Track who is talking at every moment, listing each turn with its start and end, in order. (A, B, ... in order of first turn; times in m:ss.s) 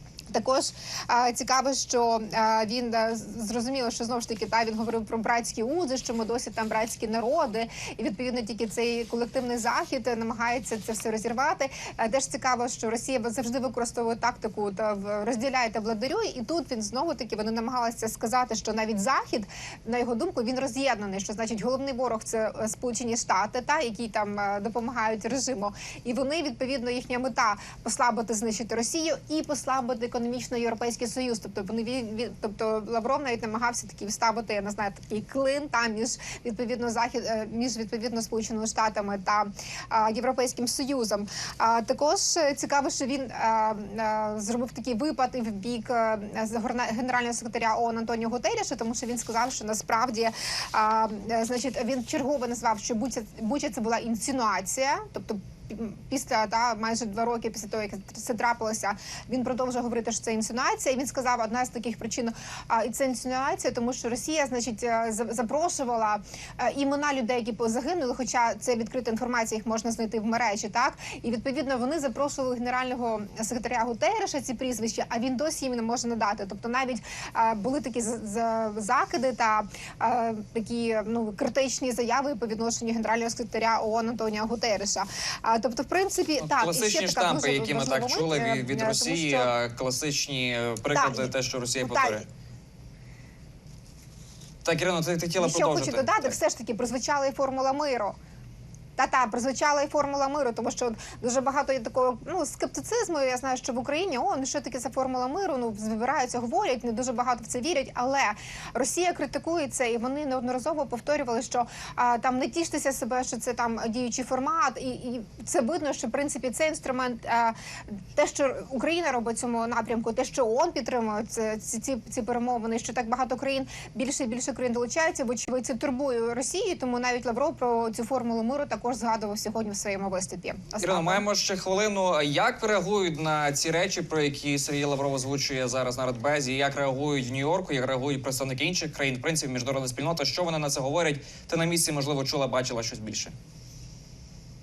0:00.3-1:29.5 A
1:26.4-1:32.2 B
1:30.9-1:32.2 A
1:34.6-1:36.3 B
1:35.4-1:38.2 A
1:39.0-2:11.2 A
2:10.8-2:23.3 B